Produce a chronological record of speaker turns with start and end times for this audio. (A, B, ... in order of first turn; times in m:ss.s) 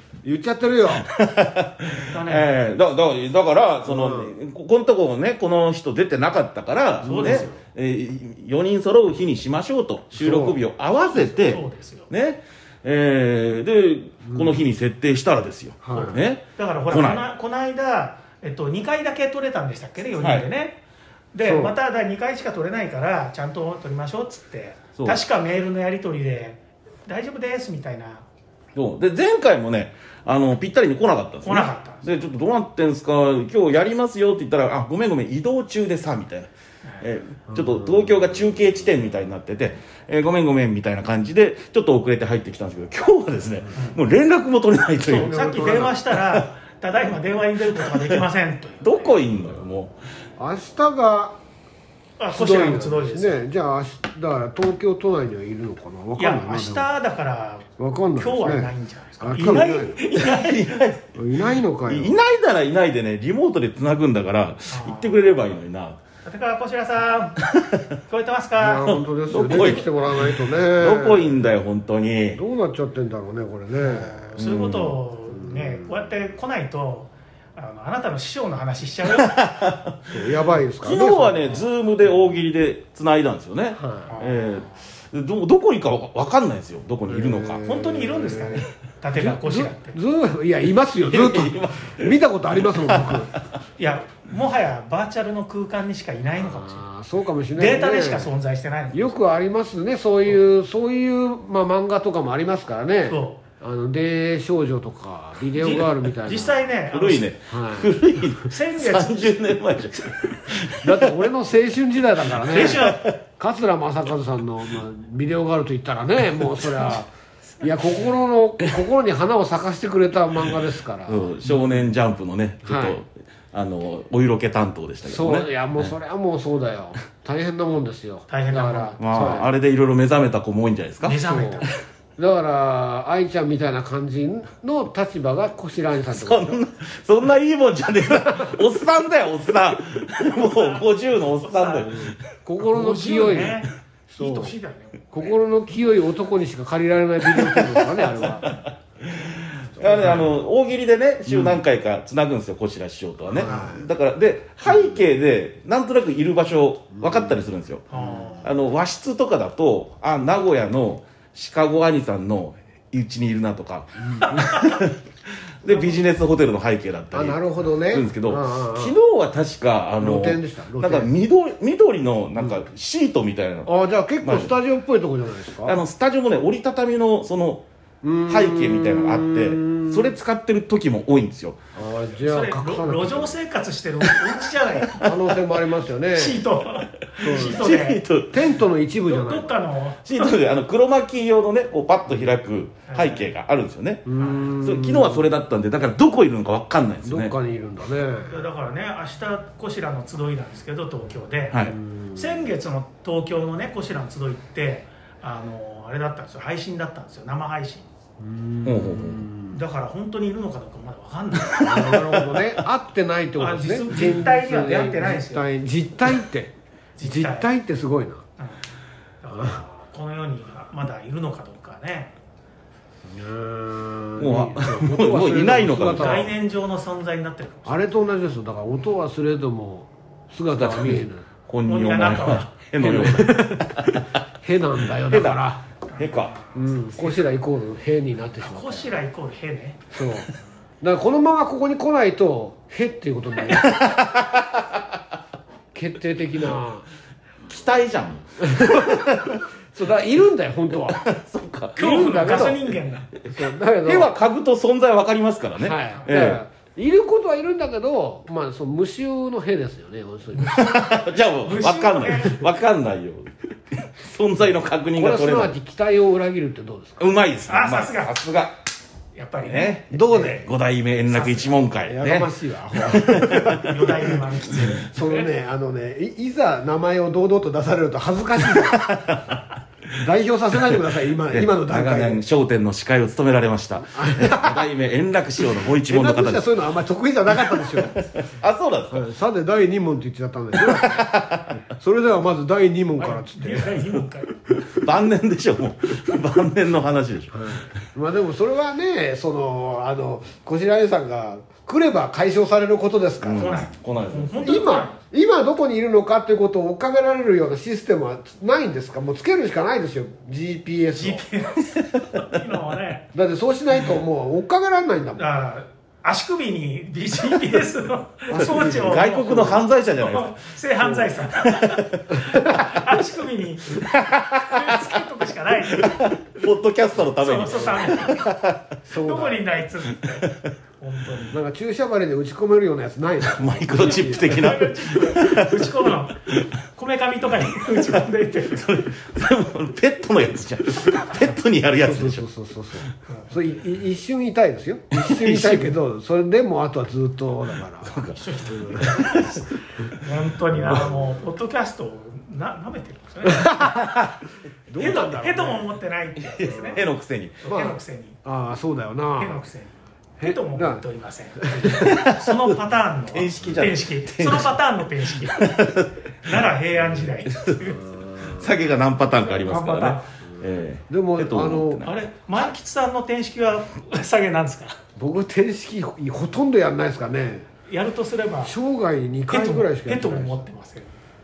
0:00.2-0:01.1 A
0:00.9-0:17.2 B
0:02.1-0:02.5 C
0:03.8-0:04.4 A
0:07.0-0:07.6 A
0:07.0-0:07.5 C
0:10.1-0:10.6 A
0:11.1-0:12.1 C
0:14.3-0:14.6 A
0:15.8-0:16.2 A
0:15.9-0:20.8 C
0:20.2-0:20.4 B
0:21.3-0:28.2 C
0:21.4-0:21.7 A
0:25.0-0:25.2 B
0:28.7-0:46.4 B
0:31.4-0:32.0 C
0:45.0-0:49.2 C
0:45.1-0:46.0 A
0:47.8-0:48.2 B
0:48.8-0:50.0 B
0:50.4-0:51.4 A
0:52.2-0:53.4 C
0:52.3-0:56.9 A
0:56.2-1:00.6 C
0:57.8-1:00.0 A
1:00.1-1:01.1 B
1:01.1-1:02.2 A
1:01.8-1:06.0 B
1:04.7-1:05.2 C
1:06.2-1:07.4 C
1:07.4-1:07.8 B
1:08.1-1:09.0 C
1:08.6-1:11.4 A
1:09.3-1:12.4 B
1:12.3-1:16.1 A
1:13.8-1:19.4 C
1:14.4-1:14.7 B
1:19.1-1:20.3 B
1:20.1-1:21.7 A
1:20.8-1:27.6 B
1:23.8-1:24.1 A
1:24.1-1:24.6 C
1:27.1-1:33.3 A
1:27.6-1:30.0 C
1:31.1-1:33.5 B
1:33.8-1:36.8 C
1:36.4-1:38.3 A
1:37.5-1:39.2 C
1:38.9-1:46.6 A
1:43.1-1:43.4 C
1:45.5-1:47.2 C
1:46.9-1:51.1 B
1:47.5-1:48.0 A
1:48.4-1:50.1 C
1:50.8-1:57.1 A
1:52.3-1:53.1 C
1:52.4-1:53.1 B
1:57.6-2:01.7 A
2:01.1-2:05.9 B
2:02.6-2:03.0 A
2:05.0-2:09.5 A
2:08.3-2:09.0 C
2:09.0-2:11.2 B
2:11.0-2:11.7 C
2:11.2-2:11.6 A
2:12.2-2:16.6 A
2:16.1-2:22.2 B
2:18.1-2:18.5 A
2:20.1-2:21.9 C
2:21.9-2:24.5 A
2:22.6-2:25.4 C
2:25.1-2:28.5 A
2:27.4-2:37.8 B
2:29.8-2:30.3 A
2:29.8-2:30.3 C
2:31.3-2:31.6 A
2:33.3-2:33.8 A
2:33.4-2:33.8 C
2:34.6-2:35.0 A
2:37.0-2:38.4 A
2:37.9-2:38.5 C
2:38.4-2:45.0 B
2:44.2-2:44.8 C
2:45.6-2:54.5 B
2:47.1-2:49.0 A
2:50.0-2:51.1 A
2:53.6-2:55.8 A
2:55.6-2:57.6 B
2:58.0-3:00.1 A
2:58.3-3:01.6 B
3:01.7-3:03.3 A
3:02.2-3:05.0 C
3:04.9-3:05.3 B
3:05.0-3:06.4 A
3:06.1-3:08.0 C
3:07.2-3:07.6 A
3:07.2-3:08.5 B
3:08.3-3:09.5 A
3:09.0-3:10.4 C
3:10.0-3:17.3 B
3:12.9-3:13.3 C
3:14.0-3:15.3 A
3:14.2-3:14.5 C
3:17.0-3:18.4 A
3:18.3-3:27.8 C
3:21.7-3:22.4 A
3:28.2-3:29.6 A
3:28.6-3:29.2 B
3:29.5-3:32.4 C
3:31.6-3:38.2 A
3:33.4-3:35.5 C
3:37.0-3:37.5 C
3:39.2-3:42.1 C
3:43.1-3:46.3 A
3:44.2-3:46.3 B
3:45.8-3:47.8 C
3:47.7-3:51.2 A
3:50.5-3:54.1 B
3:51.6-3:52.6 C
3:52.8-3:55.6 A
3:55.0-3:56.3 B
3:55.9-3:57.3 C
3:56.5-3:58.9 A
3:58.4-3:59.8 C
3:59.9-4:00.3 A
4:00.8-4:03.8 A
4:03.5-4:04.8 B
4:05.7-4:06.8 A
4:07.5-4:09.4 B
4:08.4-4:09.2 A
4:09.7-4:11.0 A
4:10.8-4:16.4 B
4:11.8-4:13.1 C
4:11.9-4:12.4 A
4:13.3-4:14.1 A
4:15.6-4:20.8 A
4:20.4-4:25.5 B
4:21.4-4:22.4 C
4:25.0-4:27.0 A
4:27.0-4:28.6 B
4:27.5-4:28.1 C
4:29.1-4:30.5 C
4:29.4-4:32.3 B
4:29.9-4:30.4 A
4:31.1-4:31.6 C
4:31.8-4:33.9 A
4:32.8-4:33.7 B
4:33.3-4:35.2 C
4:34.7-4:38.9 A
4:38.4-4:39.4 B
4:40.0-4:42.2 A
4:40.7-4:46.5 B
4:43.9-4:44.6 A
4:45.4-4:48.0 A
4:47.5-4:49.1 B
4:48.9-4:51.0 A
4:50.6-4:51.6 B
4:51.7-4:53.8 A
4:53.0-4:54.3 C
4:54.5-4:57.7 B
4:57.3-5:03.6 A
5:03.2-5:04.3 B
5:03.4-5:05.0 C
5:04.4-5:11.2 A
5:11.0-5:13.1 C
5:13.1-5:15.2 A
5:15.2-5:26.1 C
5:18.3-5:19.6 A
5:18.4-5:20.3 B
5:21.5-5:21.8 B
5:22.1-5:22.6 A
5:23.8-5:24.9 B
5:25.8-5:28.6 B
5:27.2-5:28.3 C
5:28.8-5:29.4 A
5:29.0-5:31.4 C
5:30.2-5:30.5 B
5:31.3-5:34.5 A
5:33.3-5:36.4 B
5:33.7-5:38.9 C
5:38.5-5:42.2 B
5:41.8-5:49.0 A
5:44.9-5:45.7 B
5:47.8-5:48.2 B
5:48.0-5:53.8 C
5:48.8-5:49.4 B
5:53.3-5:53.8 A
5:54.7-5:55.7 A
5:54.8-5:56.8 C
5:56.4-5:57.4 B
5:56.5-5:56.8 A
5:57.4-5:58.2 C
5:57.5-5:59.4 A
5:59.2-6:05.6 C
6:00.2-6:00.8 A
6:01.4-6:01.9 A
6:01.9-6:02.3 B
6:03.1-6:04.6 B
6:05.3-6:05.9 B
6:06.2-6:08.0 C
6:07.3-6:07.7 B
6:08.0-6:08.3 A
6:08.2-6:12.0 B
6:09.2-6:10.0 C
6:10.9-6:11.8 A
6:11.8-6:14.8 C
6:15.0-6:17.5 A
6:17.7-6:18.5 C
6:18.4-6:20.5 A
6:19.3-6:20.9 C